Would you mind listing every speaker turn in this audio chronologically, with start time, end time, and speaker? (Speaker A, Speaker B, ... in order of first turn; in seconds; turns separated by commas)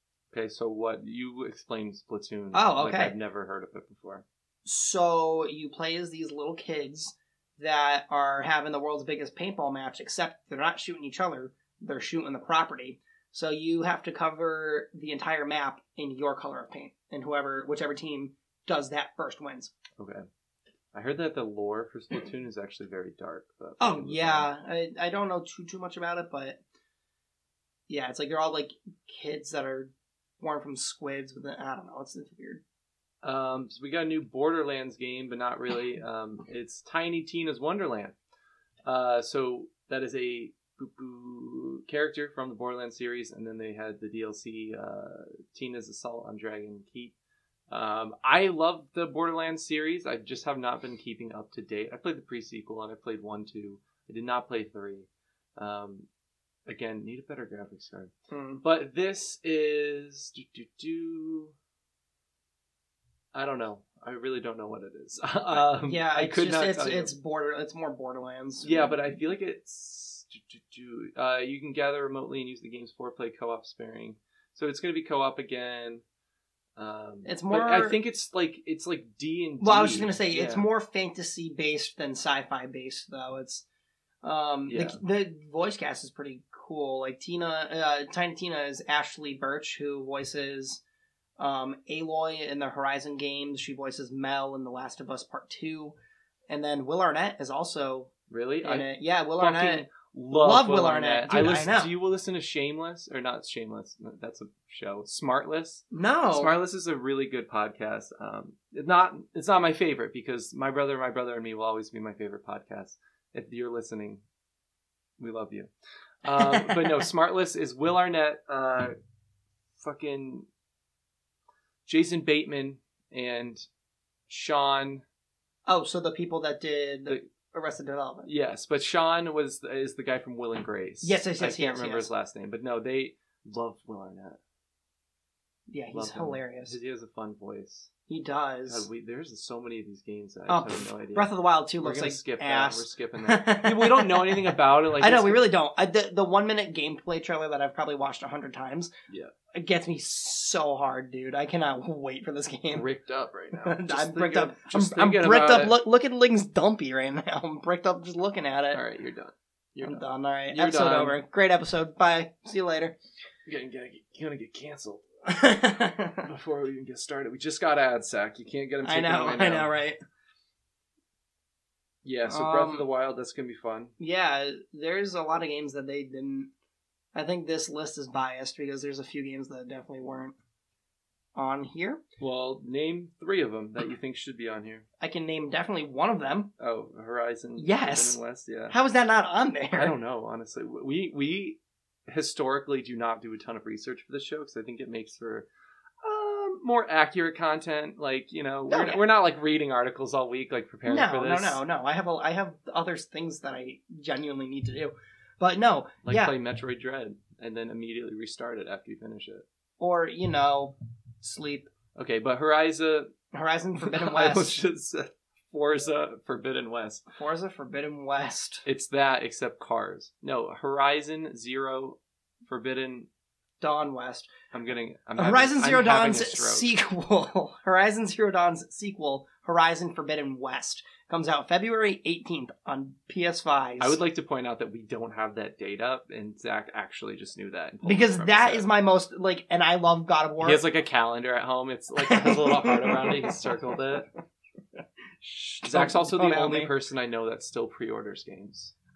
Speaker A: 0.3-4.2, Speaker B: 2.5-3.1, Speaker B: 4.6-19.7, Speaker A: 20.0-20.2, Speaker A: 20.9-24.5, Speaker B: 23.8-26.6, Speaker B: 27.9-32.6, Speaker A: 33.2-38.1, Speaker A: 38.8-47.1, Speaker A: 47.7-56.1, Speaker A: 56.6-58.1, Speaker B: 58.3-58.6, Speaker A: 58.6-61.5, Speaker A: 63.3-67.1, Speaker B: 65.7-69.0, Speaker A: 68.6-76.0, Speaker A: 76.8-80.7, Speaker B: 77.2-78.0, Speaker B: 79.6-83.6, Speaker B: 84.2-90.8, Speaker A: 84.7-85.0, Speaker B: 91.4-95.9, Speaker B: 96.5-98.1, Speaker A: 98.3-114.2, Speaker B: 98.6-101.9, Speaker B: 105.9-106.5, Speaker A: 115.2-115.7, Speaker A: 116.2-118.9, Speaker B: 116.3-117.0, Speaker A: 119.8-120.5, Speaker A: 121.8-123.7, Speaker A: 124.3-125.0, Speaker B: 125.7-128.3, Speaker A: 128.2-134.4, Speaker B: 131.0-132.1, Speaker B: 135.7-136.7, Speaker A: 135.9-137.9, Speaker B: 138.1-138.9, Speaker A: 138.7-145.5, Speaker B: 140.5-148.9, Speaker B: 149.5-152.8, Speaker A: 152.7-155.8, Speaker B: 153.6-158.8, Speaker A: 158.7-161.2, Speaker B: 159.8-163.0, Speaker A: 163.4-165.1, Speaker B: 165.2-166.3, Speaker A: 166.2-169.7, Speaker B: 168.8-170.0, Speaker A: 172.0-173.9, Speaker B: 172.3-172.9, Speaker B: 174.0-176.5, Speaker B: 177.1-180.3, Speaker B: 181.3-182.0, Speaker A: 182.2-184.8, Speaker B: 185.0-186.5, Speaker A: 186.6-188.8, Speaker B: 187.6-188.2, Speaker B: 188.7-189.9, Speaker A: 189.7-195.5, Speaker A: 196.0-201.6, Speaker B: 198.7-199.0, Speaker B: 200.8-206.3, Speaker A: 206.0-209.4, Speaker B: 209.8-211.7, Speaker A: 211.9-213.1, Speaker B: 213.3-214.6, Speaker A: 213.8-217.0, Speaker B: 217.1-218.6, Speaker A: 218.6-223.1, Speaker B: 223.6-224.3, Speaker A: 224.5-226.7, Speaker B: 225.2-234.0, Speaker A: 233.8-238.7, Speaker B: 237.8-240.6, Speaker A: 240.4-244.1, Speaker B: 242.0-243.7, Speaker B: 245.2-246.7, Speaker A: 245.6-248.7